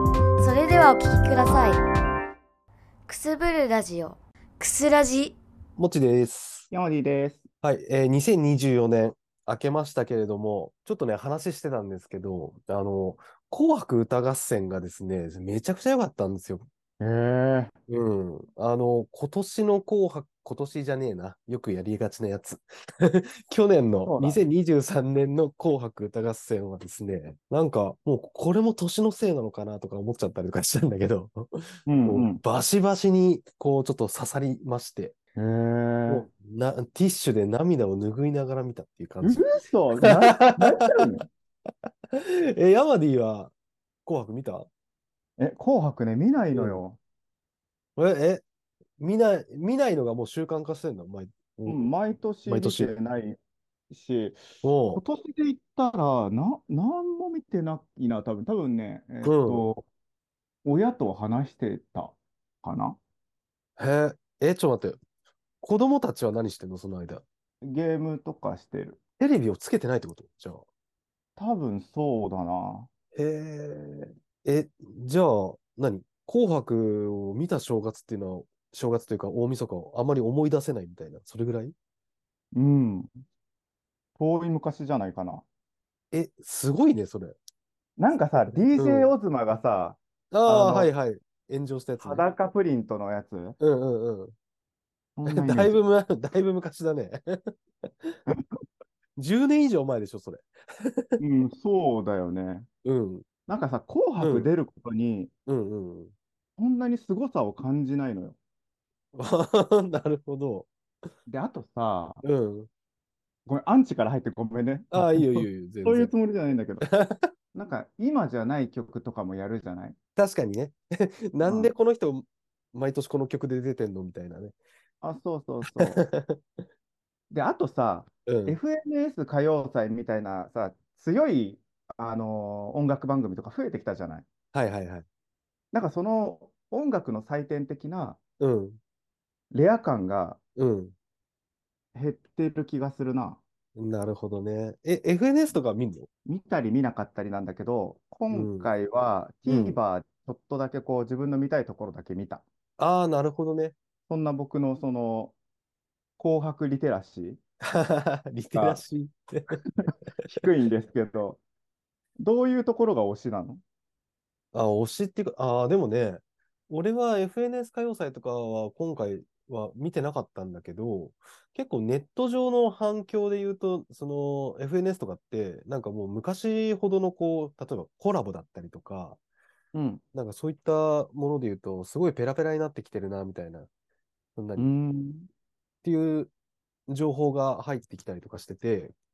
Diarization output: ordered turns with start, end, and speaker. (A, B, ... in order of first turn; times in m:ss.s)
0:00.4-0:01.8 A
0:03.1-0:05.4 A
0:05.8-0:06.7 B
0:06.7-0:07.5 C
0:07.6-0:16.7 B
0:17.0-0:17.7 C
0:17.9-0:35.1 B
0:24.0-0:24.4 C
0:31.9-0:32.4 C
0:35.3-0:36.3 C
0:36.1-0:41.0 B
0:39.2-0:41.2 C
0:42.1-0:43.5 B
0:44.0-0:44.7 B
0:45.4-0:47.0 C
0:46.5-0:46.8 B
0:48.0-0:48.4 B
0:49.0-0:51.9 B
0:51.7-0:53.4 C
0:52.4-0:52.9 B
0:53.9-0:59.8 C
0:54.6-0:55.0 B
0:59.2-0:59.7 B
1:00.6-1:03.0 C
1:03.8-1:05.0 B
1:05.6-1:07.2 B
1:07.6-1:09.0 C
1:09.2-1:10.6 B
1:11.4-1:12.9 C
1:13.1-1:21.8 B
1:22.5-1:23.1 C
1:24.2-1:25.4 C
1:26.1-1:27.4 B
1:28.0-1:30.9 C
1:28.7-1:29.1 B
1:30.3-1:32.2 B
1:32.0-1:33.6 C
1:33.6-1:34.3 B
1:35.2-1:35.8 C
1:35.2-1:38.2 B
1:39.2-1:41.2 B
1:41.2-1:42.7 C
1:42.8-1:43.2 B
1:43.5-1:45.3 C
1:44.2-1:44.5 B
1:45.5-1:46.1 B
1:46.6-1:48.4 C
1:49.1-1:50.7 B
1:51.3-1:52.2 C
1:52.2-1:52.7 B
1:53.4-1:56.8 C
1:54.9-1:56.1 B
1:56.8-1:57.3 B
1:57.5-2:00.0 C
2:00.2-2:04.5 B
2:01.5-2:01.7 C
2:05.0-2:06.0 C
2:05.7-2:06.4 B
2:07.3-2:14.3 C
2:08.3-2:08.6 B
2:14.5-2:15.0 B
2:15.7-2:18.2 C
2:18.4-2:18.8 B
2:19.5-2:20.4 C
2:20.6-2:20.9 B
2:21.9-2:23.4 C
2:23.8-2:26.1 B
2:26.2-2:32.4 C
2:28.3-2:28.7 B
2:29.5-2:29.8 B
2:32.8-2:33.8 B
2:34.1-2:35.3 C
2:36.2-2:37.4 C
2:37.7-2:39.6 B
2:38.5-2:38.8 C
2:39.9-2:41.4 C
2:42.2-2:43.6 C
2:44.5-2:59.2 B
2:59.7-3:00.0 C
3:00.1-3:03.7 B
3:04.4-3:04.7 B
3:04.6-3:05.3 C
3:05.8-3:06.3 B
3:06.9-3:08.9 B